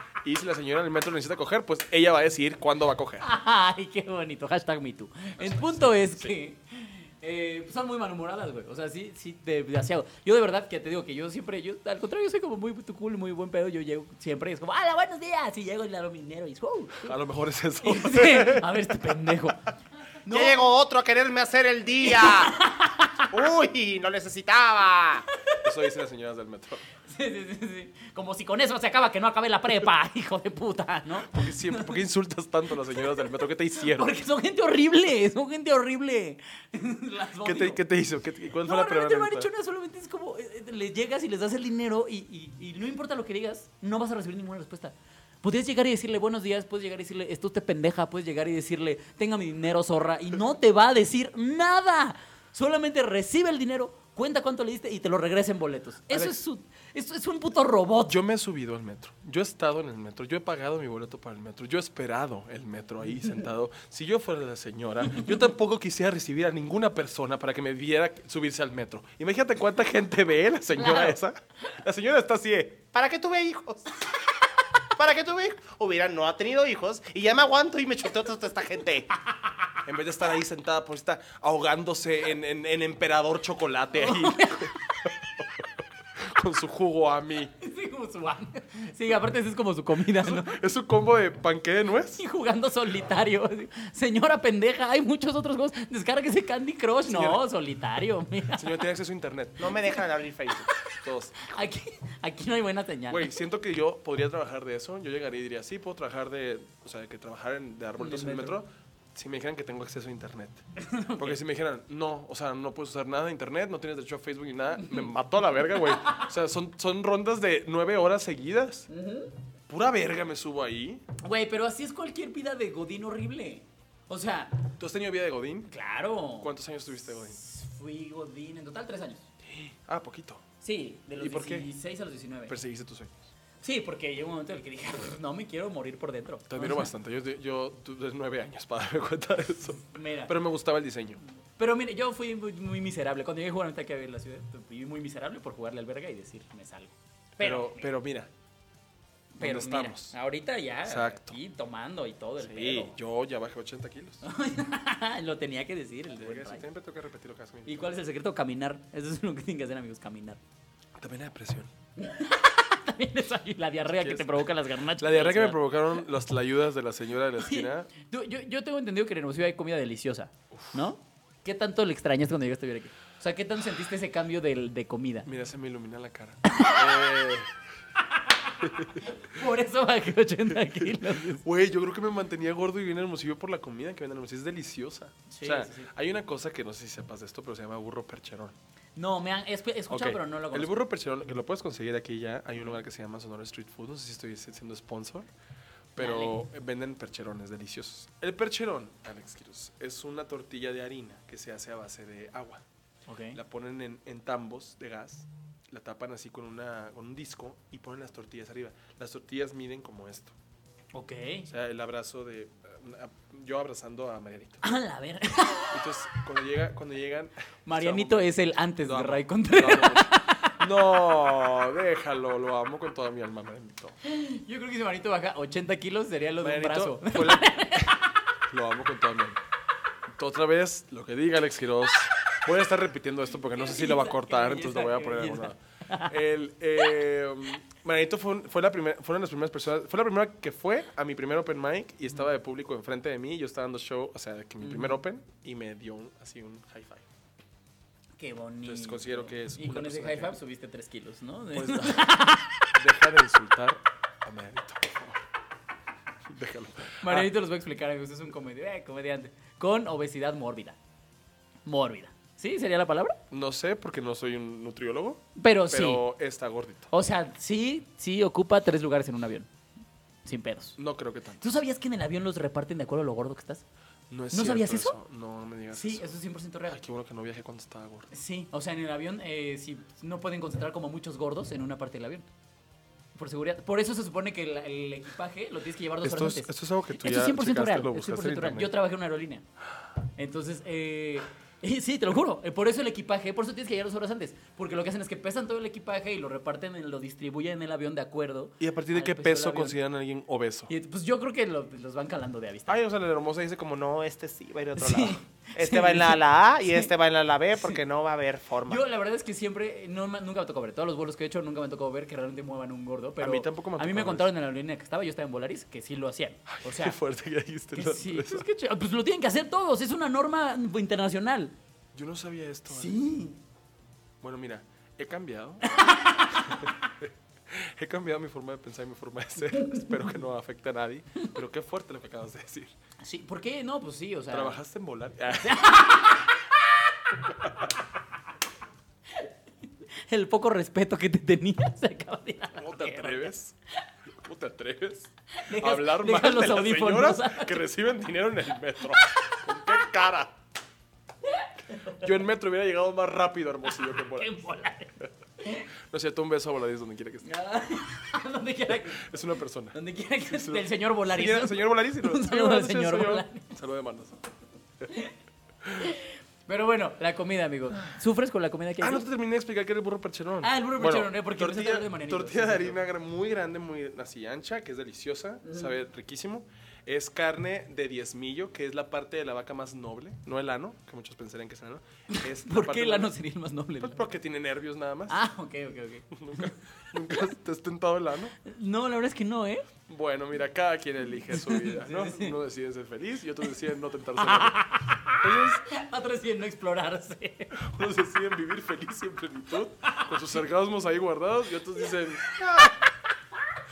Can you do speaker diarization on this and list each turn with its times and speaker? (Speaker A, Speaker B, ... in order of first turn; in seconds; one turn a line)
Speaker A: 0.2-3.3
Speaker B: 3.2-17.1
Speaker A: 5.4-6.3
Speaker A: 17.0-19.3
Speaker B: 17.8-19.6
Speaker B: 20.2-20.6
Speaker C: 20.3-22.5
Speaker B: 22.2-23.1
Speaker C: 23.3-25.3
Speaker A: 25.6-26.8
Speaker B: 27.1-31.9
Speaker A: 31.2-34.1
Speaker B: 33.8-37.8
Speaker A: 37.4-39.5
Speaker B: 38.6-58.2
Speaker A: 56.1-56.4
Speaker A: 58.1-72.8
Speaker B: 70.8-71.1
Speaker C: 72.9-74.0
Speaker C: 75.0-79.1
Speaker A: 79.8-87.5
Speaker B: 83.9-84.8
Speaker B: 87.6-90.6
Speaker A: 90.2-92.2
Speaker B: 92.2-98.7
Speaker A: 97.1-97.4
Speaker A: 98.5-99.8
Speaker C: 99.6-100.7
Speaker A: 100.8-101.6
Speaker B: 101.4-103.3
Speaker A: 103.1-110.6
Speaker B: 108.0-108.6
Speaker B: 110.8-111.4
Speaker A: 111.2-118.8
Speaker B: 115.7-116.3
Speaker B: 118.9-119.3
Speaker A: 119.7-121.0
Speaker B: 121.2-124.6
Speaker A: 124.8-125.7
Speaker B: 125.7-126.5
Speaker A: 126.4-127.4
Speaker B: 127.3-129.3
Speaker A: 129.5-130.4
Speaker B: 130.6-132.5
Speaker A: 131.2-131.7
Speaker A: 132.5-133.2
Speaker B: 133.6-136.9
Speaker A: 136.5-141.2
Speaker B: 139.9-140.3
Speaker B: 141.6-147.9
Speaker A: 147.4-148.3
Speaker B: 149.3-152.9
Speaker A: 149.4-150.1
Speaker A: 150.8-151.3
Speaker A: 152.4-154.2
Speaker B: 154.2-156.6
Speaker A: 156.1-158.0
Speaker B: 157.7-160.4
Speaker A: 161.0-161.7
Speaker B: 162.0-165.6
Speaker A: 164.0-164.4
Speaker A: 165.0-167.9
Speaker B: 167.4-175.3
Speaker A: 175.2-177.5
Speaker B: 176.5-176.8
Speaker B: 178.1-181.4
Speaker A: 178.6-179.1
Speaker A: 180.6-188.6
Speaker B: 185.3-185.9
Speaker B: 188.9-190.7
Speaker A: 189.9-195.3
Speaker A: 195.9-202.6
Speaker B: 196.0-196.3
Speaker B: 203.1-203.4
Speaker A: 203.3-210.3
Speaker B: 210.9-211.5
Speaker A: 211.5-214.6
Speaker B: 214.6-216.2
Speaker A: 215.7-218.3
Speaker B: 217.7-220.6
Speaker A: 218.8-223.9
Speaker B: 224.0-228.1
Speaker A: 226.4-228.0
Speaker A: 228.5-229.4
Speaker A: 230.1-247.1
Speaker B: 233.5-236.1
Speaker B: 244.6-245.0
Speaker B: 248.2-252.6
Speaker A: 248.6-250.4
Speaker A: 251.5-252.1
Speaker A: 252.7-255.2
Speaker A: 256.2-257.3
Speaker B: 257.0-260.8
Speaker B: 261.6-263.2
Speaker A: 263.3-266.9
Speaker B: 265.4-266.0
Speaker B: 266.9-269.5
Speaker B: 270.2-270.8
Speaker A: 270.8-271.4
Speaker B: 271.4-273.6
Speaker A: 274.1-276.0
Speaker B: 274.3-275.0
Speaker B: 275.7-276.8
Speaker A: 276.7-278.1
Speaker B: 278.1-282.2
Speaker B: 283.1-289.4
Speaker A: 286.0-288.7
Speaker B: 290.2-299.8
Speaker A: 298.6-300.7
Speaker B: 300.7-302.8
Speaker C: 302.7-308.8
Speaker A: 302.8-303.0
Speaker B: 304.8-306.9
Speaker B: 308.6-317.0
Speaker A: 313.2-314.3
Speaker A: 316.5-318.4
Speaker B: 317.7-321.5
Speaker A: 321.9-323.0
Speaker B: 322.7-323.4
Speaker A: 324.2-325.6
Speaker B: 325.6-326.7
Speaker A: 326.3-332.7
Speaker B: 329.5-329.9
Speaker B: 333.0-334.6
Speaker A: 334.3-335.8
Speaker B: 335.4-336.5
Speaker B: 340.1-343.3
Speaker A: 342.6-343.5
Speaker A: 344.1-350.3
Speaker B: 345.3-347.6
Speaker B: 351.7-352.0
Speaker A: 352.0-354.4
Speaker B: 354.0-355.6
Speaker A: 355.9-357.3
Speaker B: 357.2-359.2
Speaker A: 358.9-364.2
Speaker B: 359.7-363.5
Speaker A: 365.6-365.9
Speaker B: 365.8-369.0
Speaker A: 368.8-383.1
Speaker B: 370.4-372.8
Speaker B: 382.1-384.0
Speaker A: 383.8-385.2
Speaker B: 385.1-386.5
Speaker A: 386.1-388.4
Speaker B: 388.4-389.7
Speaker A: 389.9-395.6
Speaker B: 391.3-392.4
Speaker B: 394.2-397.6
Speaker A: 397.6-402.7